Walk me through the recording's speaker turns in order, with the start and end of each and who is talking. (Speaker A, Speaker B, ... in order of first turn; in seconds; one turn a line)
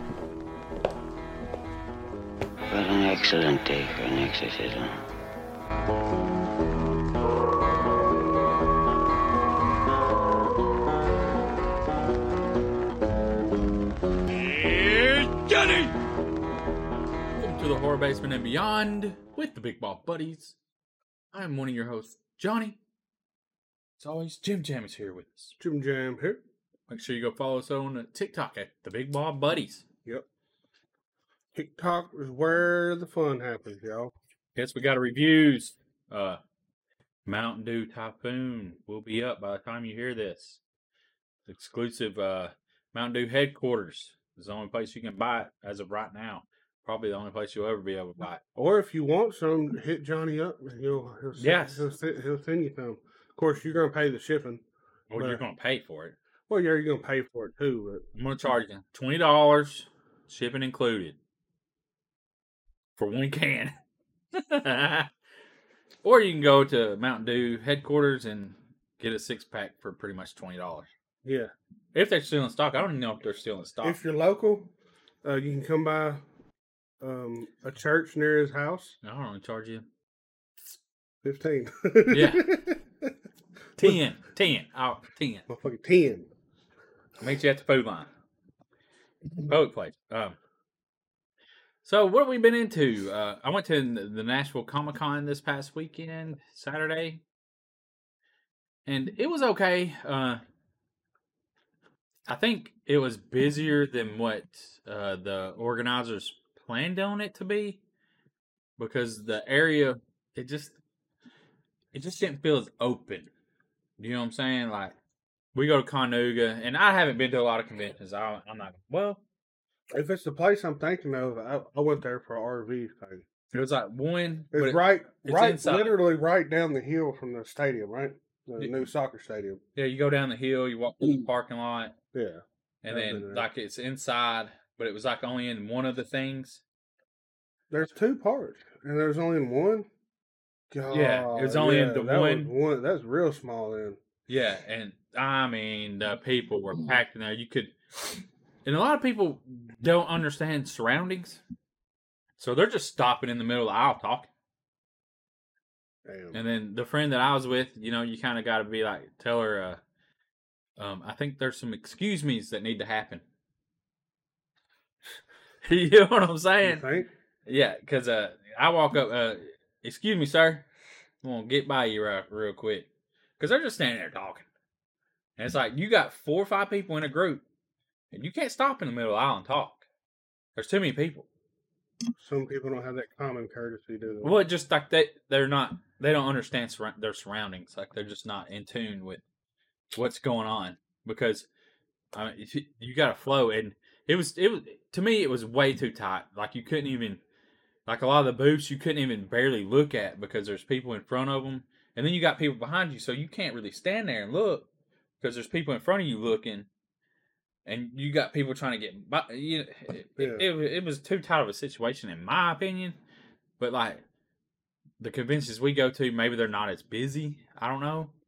Speaker A: 2.7-5.0
Speaker B: 14.3-15.9
Speaker B: 17.3-20.6
Speaker B: 21.3-22.8
Speaker B: 24.0-25.6
Speaker C: 25.6-26.4
Speaker B: 26.9-29.8
Speaker C: 31.5-34.1
Speaker B: 34.6-36.4
Speaker B: 37.3-40.6
Speaker B: 41.5-48.4
Speaker C: 48.6-54.6
Speaker B: 51.4-51.9
Speaker B: 55.1-56.2
Speaker C: 55.1-55.4
Speaker C: 56.5-58.0
Speaker B: 58.1-61.2
Speaker B: 63.0-63.8
Speaker B: 64.3-65.1
Speaker B: 66.0-70.9
Speaker C: 71.2-71.5
Speaker B: 71.9-74.0
Speaker C: 73.8-74.7
Speaker C: 75.2-76.2
Speaker C: 77.0-79.0
Speaker B: 79.0-79.9
Speaker C: 81.2-83.2
Speaker B: 82.1-82.5
Speaker B: 83.8-85.5
Speaker C: 85.5-86.3
Speaker B: 87.2-88.1
Speaker B: 89.5-90.4
Speaker B: 91.8-97.2
Speaker B: 98.9-100.4
Speaker B: 102.3-107.8
Speaker B: 108.8-110.8
Speaker B: 111.9-113.3
Speaker B: 114.0-115.0
Speaker B: 115.5-119.2
Speaker C: 119.9-123.2
Speaker B: 123.5-125.9
Speaker C: 124.5-129.6
Speaker B: 129.8-131.9
Speaker C: 132.1-133.5
Speaker B: 132.8-136.6
Speaker C: 137.7-139.9
Speaker C: 140.7-144.0
Speaker B: 140.9-142.5
Speaker B: 144.3-147.8
Speaker B: 148.7-151.4
Speaker B: 152.4-154.3
Speaker C: 156.1-156.4
Speaker B: 156.3-159.8
Speaker B: 160.8-163.2
Speaker B: 165.6-166.9
Speaker C: 166.6-167.1
Speaker B: 167.5-170.7
Speaker B: 171.2-172.9
Speaker B: 173.4-174.5
Speaker B: 175.4-177.4
Speaker B: 178.1-179.8
Speaker B: 180.6-181.3
Speaker C: 182.2-184.3
Speaker B: 184.2-189.2
Speaker B: 189.9-191.5
Speaker B: 192.1-197.2
Speaker B: 197.9-204.7
Speaker B: 205.2-206.7
Speaker B: 207.7-213.0
Speaker C: 210.2-210.5
Speaker B: 213.6-214.0
Speaker B: 215.0-218.1